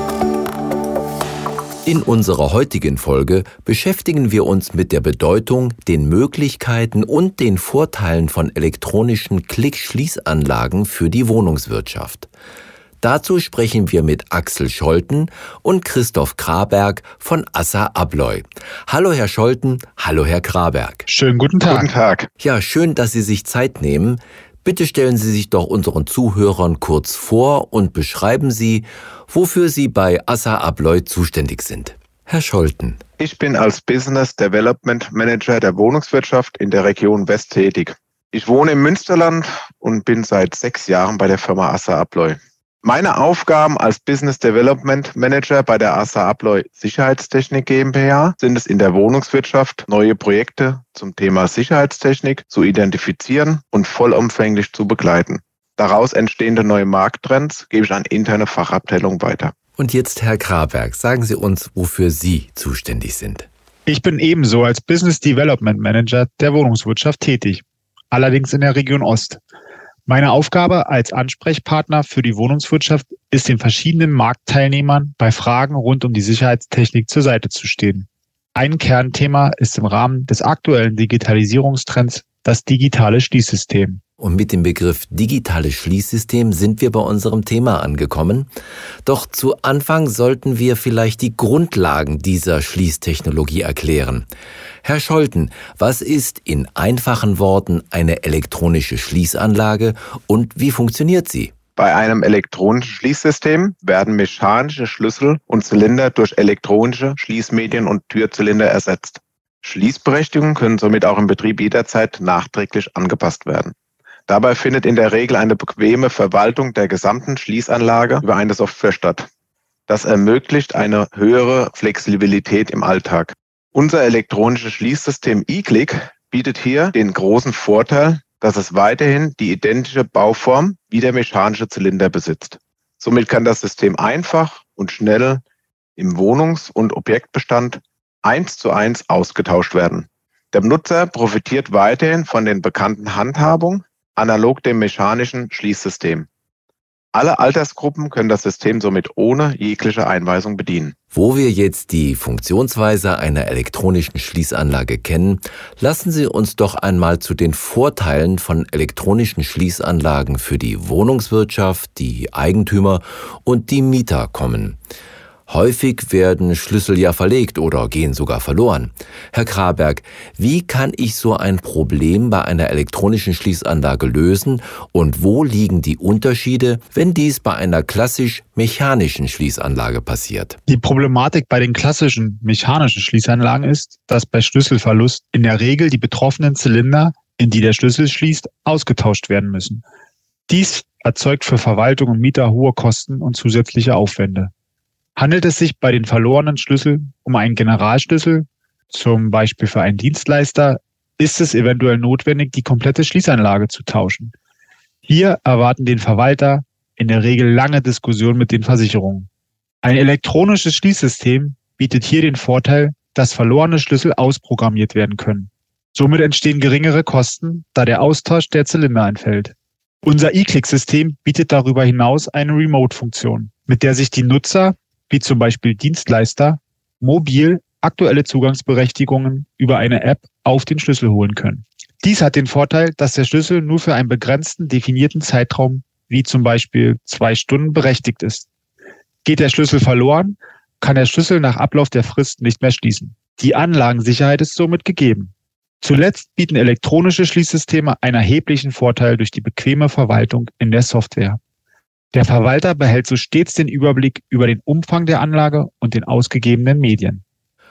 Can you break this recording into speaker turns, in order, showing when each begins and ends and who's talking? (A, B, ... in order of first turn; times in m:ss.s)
0:01.8-0:12.3 A
0:13.0-0:21.0 A
0:21.1-0:21.9 B
0:21.6-0:22.3 C
0:22.4-0:33.0 A
0:33.2-0:59.5 C
0:59.8-1:03.5 A
1:03.9-1:09.4 B
1:10.1-1:24.0 B
1:24.2-1:28.5 A
1:29.0-1:34.3 A
1:34.8-1:41.5 A
1:41.8-1:53.7 C
1:54.3-1:59.3 C
1:59.9-2:15.4 C
2:16.0-2:26.3 C
2:27.1-2:30.9 C
2:31.1-2:44.8 A
2:45.5-3:00.6 A
3:00.7-3:09.8 B
3:10.5-3:14.5 B
3:15.2-3:24.3 B
3:25.0-3:29.3 B
3:29.8-3:58.5 B
3:59.2-4:11.4 B
4:12.1-4:17.2 B